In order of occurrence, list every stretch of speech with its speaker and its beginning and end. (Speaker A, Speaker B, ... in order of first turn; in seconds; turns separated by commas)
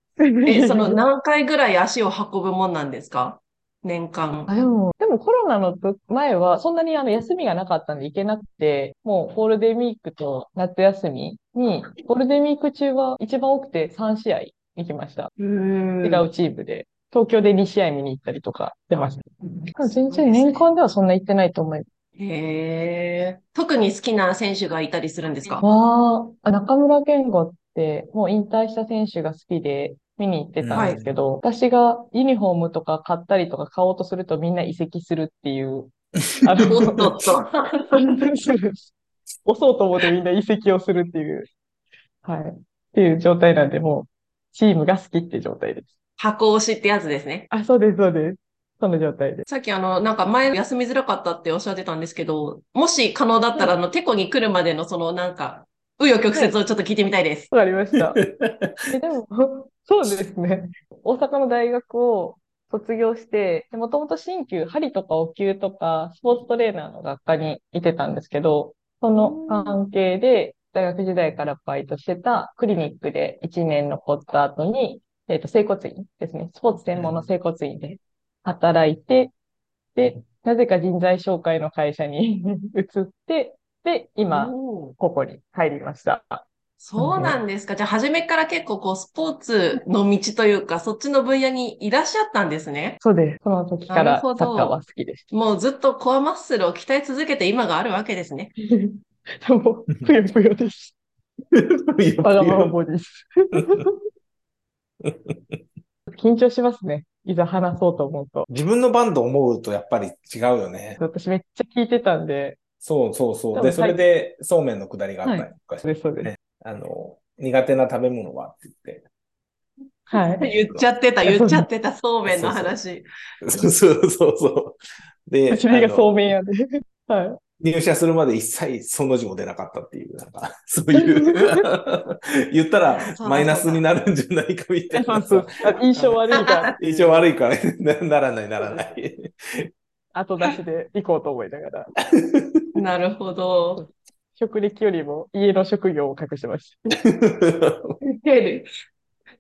Speaker A: 0.2-1.0, Speaker B: 0.5-4.5, Speaker A: 4.5-15.3, Speaker B: 15.4-16.3, Speaker A: 16.0-21.9, Speaker B: 20.1-20.7, Speaker B: 22.2-25.7, Speaker A: 25.6-37.3, Speaker C: 30.6-31.1, Speaker B: 30.7-31.0, Speaker C: 36.5-37.0, Speaker B: 36.7-37.9, Speaker A: 37.9-38.9, Speaker A: 39.5-41.5, Speaker A: 42.2-45.9, Speaker B: 46.2-47.5, Speaker A: 47.5-49.5, Speaker B: 49.5-57.5, Speaker A: 57.5-58.2, Speaker C: 58.0-58.9, Speaker A: 58.9-79.3, Speaker B: 69.2-69.8, Speaker C: 76.9-77.3, Speaker A: 80.0-86.5, Speaker B: 84.3-85.0, Speaker B: 86.8-93.0, Speaker A: 87.0-87.4, Speaker A: 93.0-95.3, Speaker B: 93.9-94.8, Speaker B: 95.3-98.5, Speaker A: 98.6-100.9, Speaker C: 101.5-102.8, Speaker A: 102.2-104.0, Speaker C: 103.5-103.9, Speaker C: 105.0-105.6, Speaker A: 106.1-108.5, Speaker C: 108.5-111.0, Speaker A: 111.0-112.6, Speaker C: 112.8-119.0, Speaker A: 113.5-114.0, Speaker A: 115.2-116.3, Speaker A: 120.1-120.5, Speaker B: 120.3-123.1, Speaker A: 121.2-121.7, Speaker C: 122.3-122.8, Speaker C: 123.4-126.2, Speaker A: 125.5-127.4, Speaker C: 127.6-136.2, Speaker A: 130.9-131.6, Speaker B: 133.0-133.8, Speaker A: 134.9-137.3, Speaker B: 136.3-136.7, Speaker C: 136.8-139.7, Speaker A: 140.1-141.9, Speaker C: 142.1-142.7, Speaker B: 142.8-143.8, Speaker A: 143.8-146.8, Speaker C: 147.0-148.0, Speaker B: 148.0-148.7